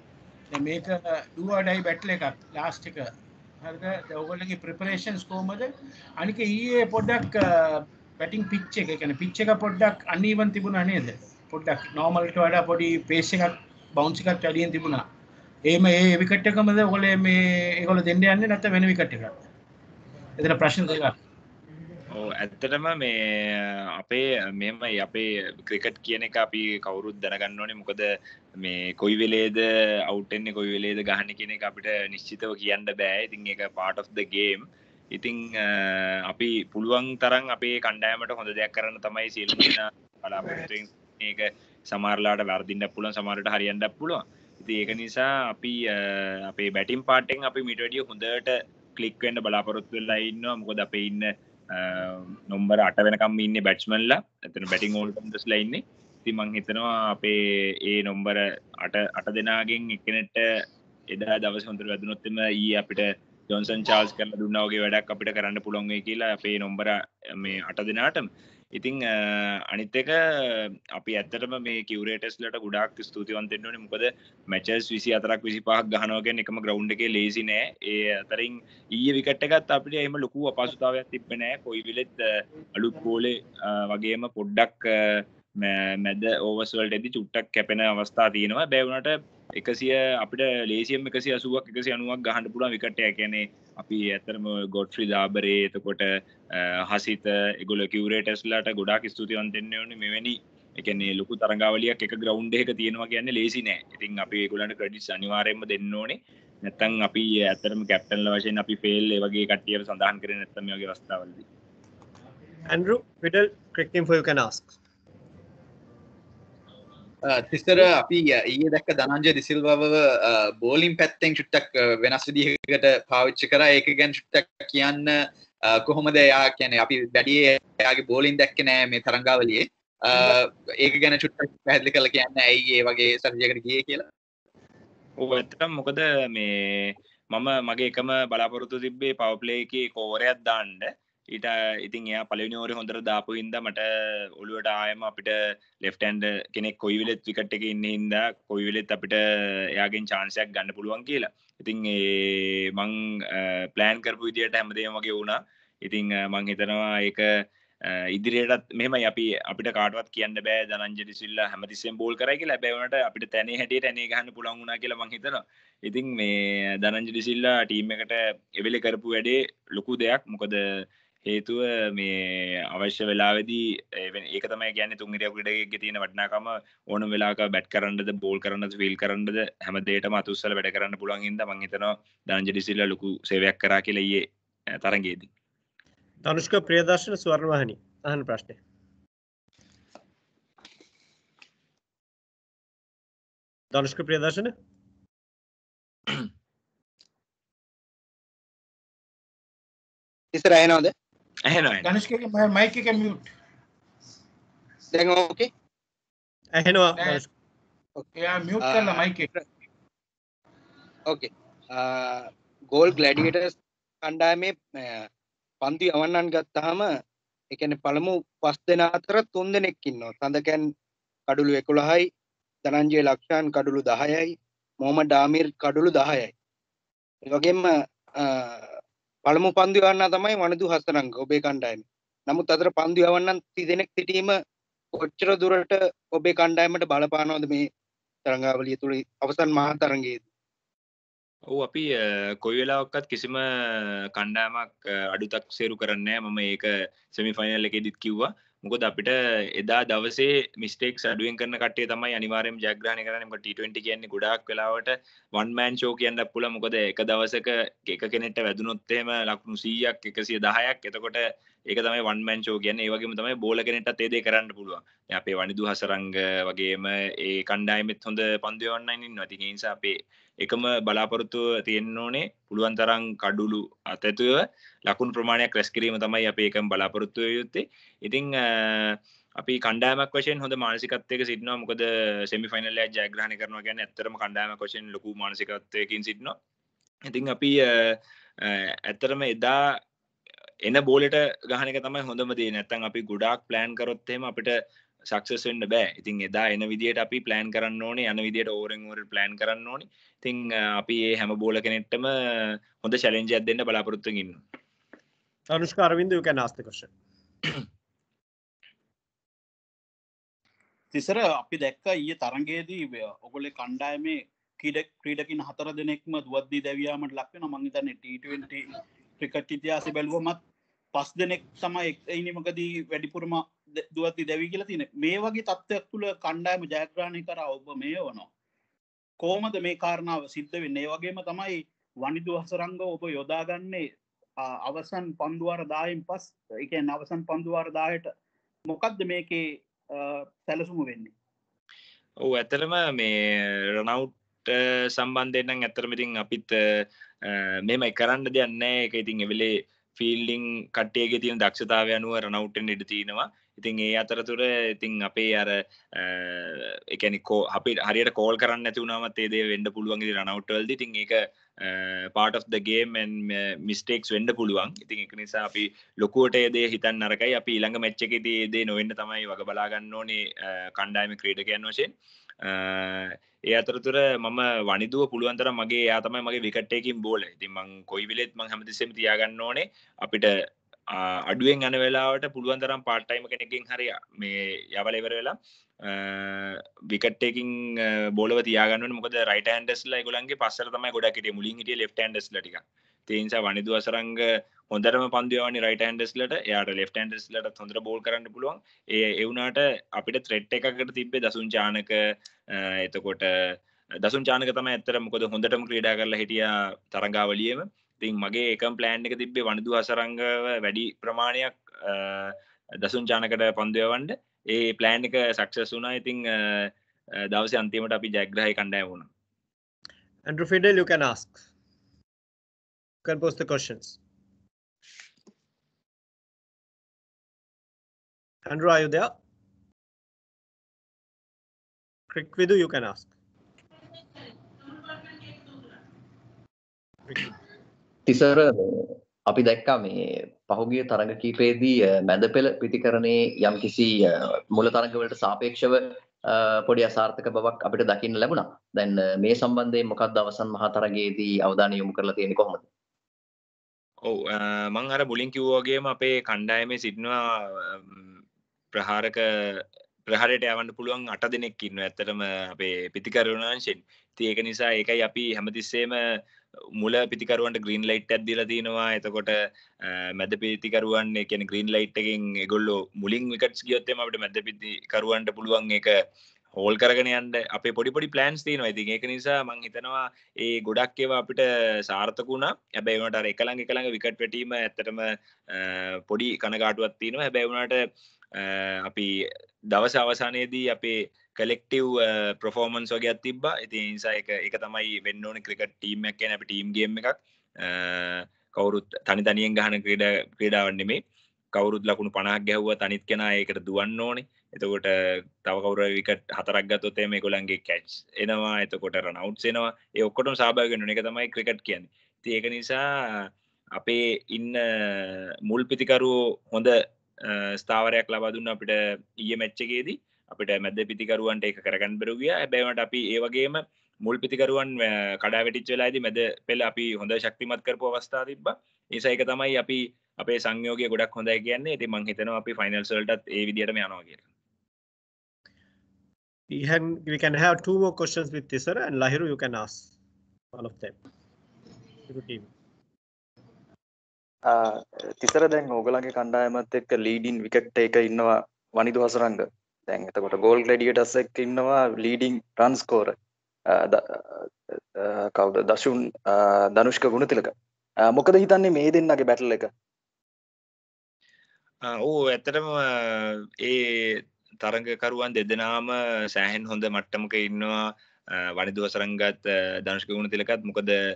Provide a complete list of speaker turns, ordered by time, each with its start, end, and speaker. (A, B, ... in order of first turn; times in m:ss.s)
0:00.5-0:03.1 A
0:03.6-0:15.0 A
0:15.6-0:19.4 A
0:20.4-0:21.2 A
0:22.1-0:28.0 B
0:28.6-1:00.4 B
1:01.1-1:51.4 B
1:52.7-1:54.7 C
1:57.2-2:14.0 D
2:15.2-2:23.8 B
2:24.4-2:29.2 B
2:29.7-2:37.3 B
2:37.9-3:04.2 B
3:04.8-3:05.3 B
3:06.2-3:08.6 C
3:13.7-3:14.5 C
3:20.3-3:20.9 E
3:21.5-3:21.9 B
3:21.8-3:23.3 A
3:24.9-3:25.5 E
3:26.5-3:27.3 C
3:27.0-3:27.2 A
3:28.2-3:29.3 A
3:28.6-3:29.4 E
3:31.1-3:35.0 E
3:35.6-3:36.9 E
3:37.5-3:40.6 E
3:41.3-3:42.0 E
3:42.6-3:46.3 E
3:47.3-3:48.7 E
3:49.3-3:54.3 E
3:55.0-3:57.6 E
3:58.3-4:00.2 E
4:01.5-4:46.4 B
4:47.1-4:49.8 B
4:50.6-4:54.6 B
4:55.1-5:04.4 B
5:05.5-5:06.9 C
5:10.9-5:20.4 F
5:20.9-5:28.3 F
5:29.2-5:33.8 F
5:34.4-5:38.1 F
5:38.7-5:41.1 F
5:42.2-6:11.9 B
6:12.4-6:20.3 B
6:20.9-6:42.0 B
6:42.5-6:56.7 B
6:57.3-6:59.1 B
7:00.2-7:01.4 C
7:03.0-7:04.0 C
7:08.4-7:09.1 C
7:12.1-7:13.1 C
7:18.1-7:32.6 G
7:34.0-7:38.2 B
7:38.7-7:46.0 B
7:46.8-7:55.9 B
7:56.6-8:07.8 B
8:08.4-8:09.1 B
8:09.7-8:21.0 B
8:21.5-8:24.9 B
8:25.4-8:54.2 B
8:56.5-8:59.9 C
9:00.5-9:01.0 C
9:02.1-9:02.5 C
9:04.5-9:13.2 H
9:13.7-9:19.7 H
9:21.8-9:27.8 B
9:28.5-9:31.0 B